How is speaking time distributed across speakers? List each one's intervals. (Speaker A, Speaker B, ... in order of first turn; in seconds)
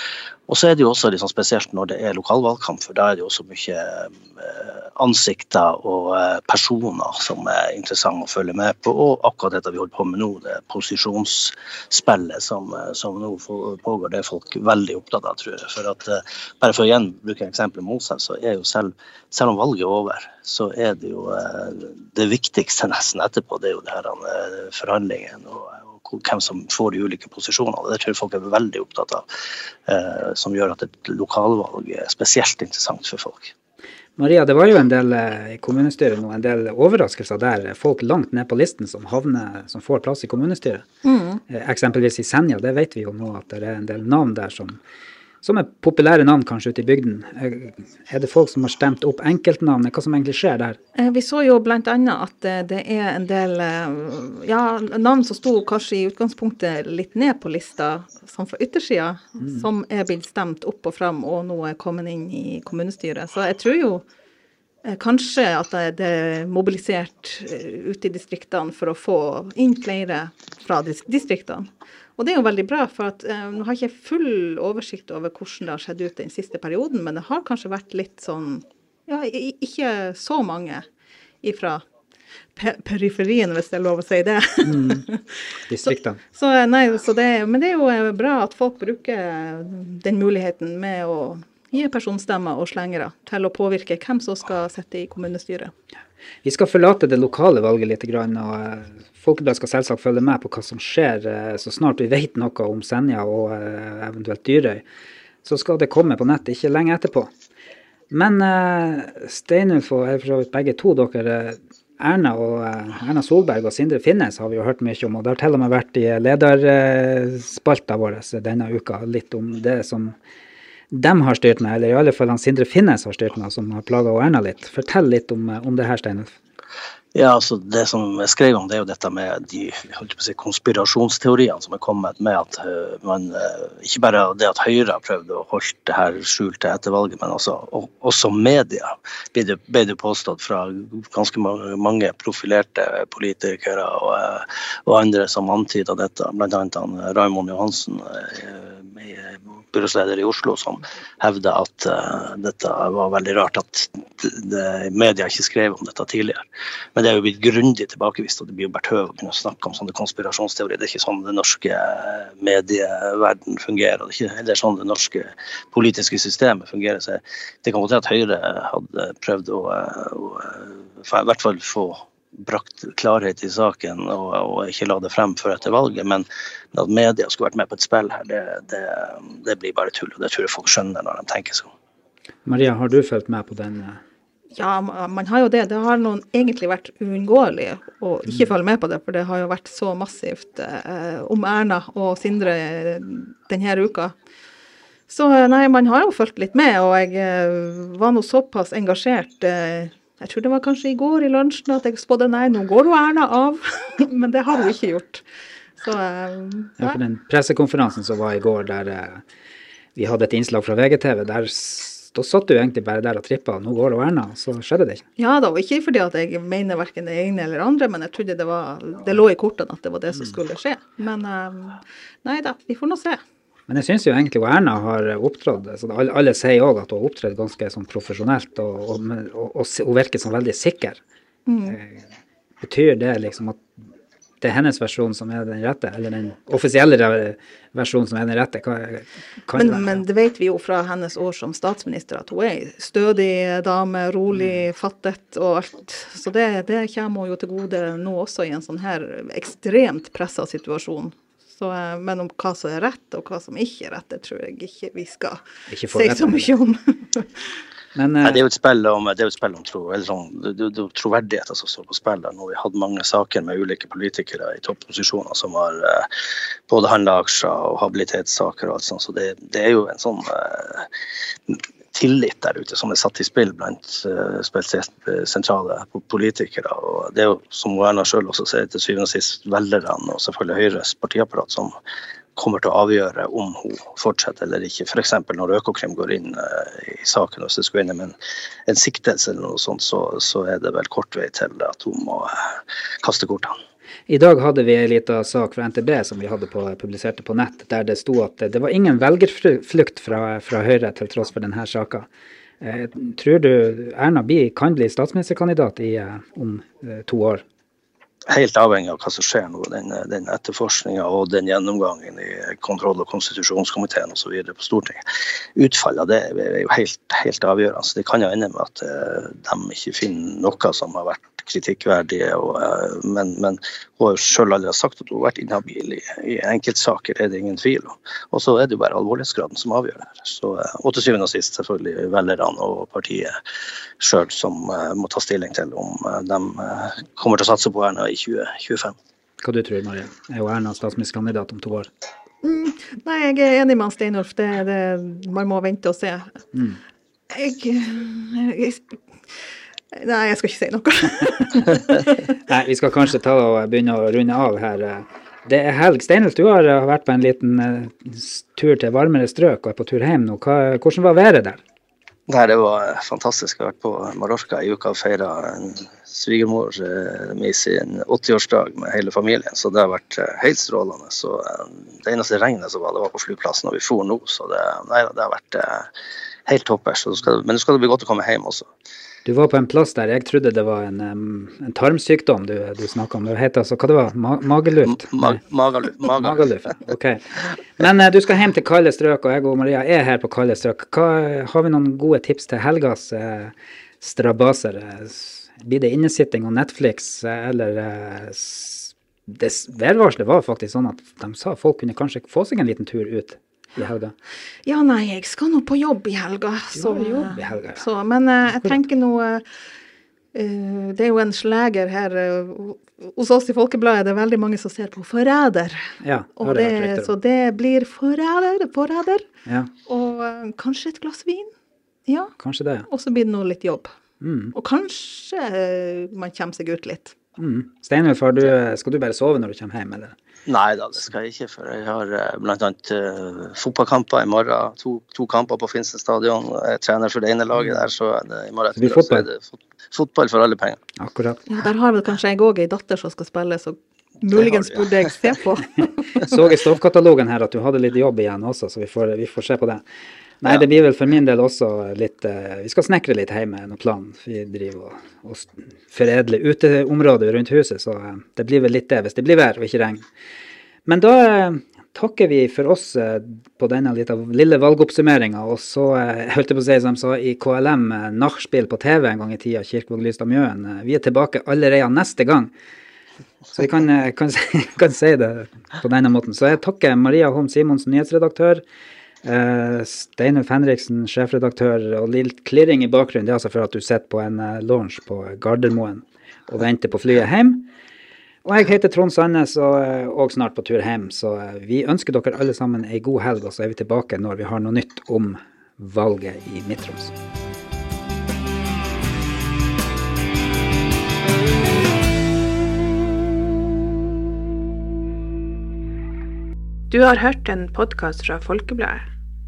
Speaker A: 0.5-29.2, 29.9-33.5, 127.1-156.4, 156.9-181.7, 258.2-266.1, 266.7-270.9, 271.5-281.7, 282.4-288.1, 288.7-292.3, 293.0-293.5, 308.3-315.0, 315.6-333.3, 334.0-338.9, 362.3-375.9, 376.4-378.7, 384.9-386.4, 430.5-440.8
Speaker B: 34.2-40.8, 41.5-44.8, 45.4-50.8, 84.6-85.1, 85.7-86.2, 96.4-104.8, 105.4-107.3, 108.1-120.2, 120.9-126.3, 182.4-184.0, 206.8-209.2, 209.9-215.0, 223.7-231.0, 231.7-232.0, 232.6-233.6, 234.4-240.0, 244.3-244.6, 255.7-256.5, 257.9-258.4, 294.1-302.1, 302.6-307.4, 339.4-341.9, 346.5-346.8, 352.3-361.6, 379.2-385.4, 386.1-404.1, 406.7-407.9, 408.5-408.8, 416.0-417.1, 422.4-422.9, 424.2-424.5, 427.4-430.1, 438.8-439.2, 441.0-441.4, 446.1-449.8, 450.4-460.0, 460.9-472.5, 473.5-478.6, 479.2-487.7, 488.4-497.1
Speaker C: 41.0-41.4, 50.9-64.0, 64.8-80.8, 81.4-81.8, 82.5-85.2, 85.8-95.7, 184.5-194.1, 195.1-205.2, 205.8-207.0, 215.2-223.2, 231.4-231.8, 239.5-257.5, 342.4-346.3, 347.3-349.0, 349.9-352.1, 404.6-409.5, 410.3-419.2, 419.9-421.5, 422.1-422.3, 422.9-423.9, 424.5-427.1, 441.5-446.3
Speaker D: 506.9-509.1